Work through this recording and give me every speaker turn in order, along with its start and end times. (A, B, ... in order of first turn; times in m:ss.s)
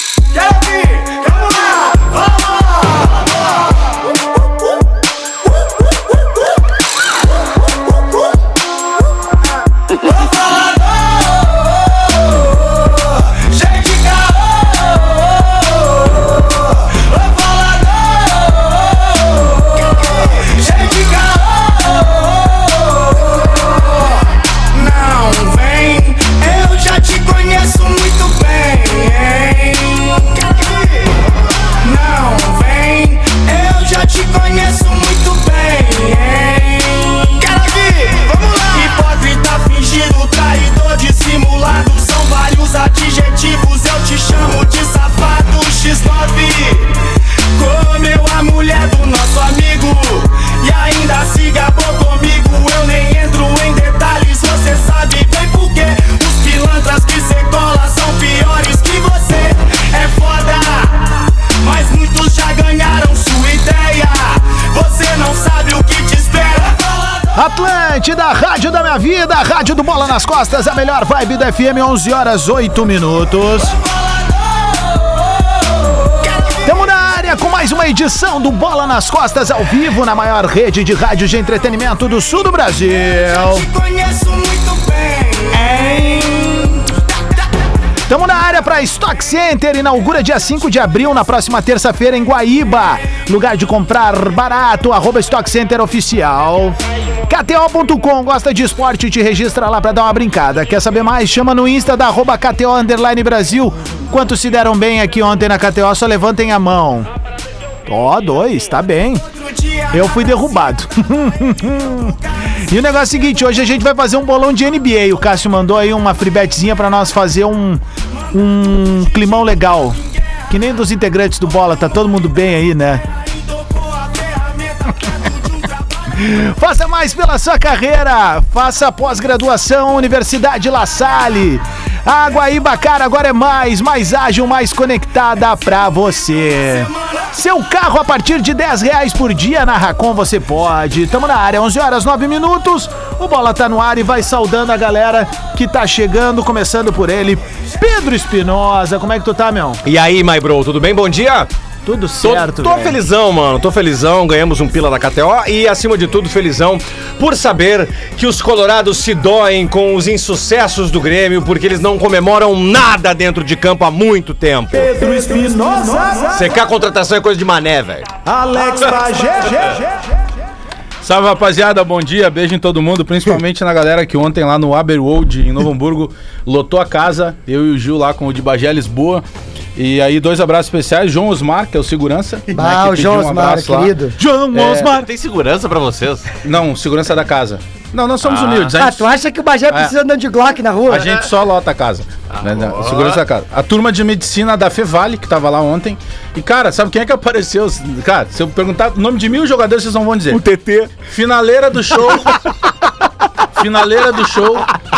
0:00.4-0:01.3 A
0:13.3-0:15.4 A
0:16.9-0:24.1 A
0:24.7-0:31.3 A
0:31.8-1:07.3 A
1:07.3-1:13.7 B
1:13.8-1:15.1 A
1:16.2-1:16.9 A
1:16.7-1:23.7 B
1:23.2-1:27.4 A
1:28.1-1:36.8 B
1:37.3-1:47.1 B
1:47.9-1:49.2 B
1:49.3-1:50.4 A
1:49.9-1:52.1 B
1:51.8-1:52.1 A
1:52.7-2:00.0 B
1:58.9-2:00.6 A
2:00.5-2:03.0 B
2:03.1-2:06.2 A
2:06.2-2:29.8 B
2:29.8-2:31.5 C
2:31.8-2:33.0 B
2:32.2-2:44.9 C
2:44.7-2:46.5 B
2:46.3-2:48.1 C
2:48.2-2:49.9 B
2:51.0-2:59.2 D
2:59.8-3:03.9 D
3:02.5-3:04.2 E
3:04.2-3:05.1 B
3:04.6-3:06.3 F
3:06.4-3:09.1 D
3:08.2-3:08.8 F
3:08.8-3:11.1 E
3:10.9-3:20.4 D
3:10.9-3:11.3 F
3:12.3-3:13.2 F
3:20.3-3:20.9 C
3:21.0-3:22.4 D
3:23.5-3:24.7 D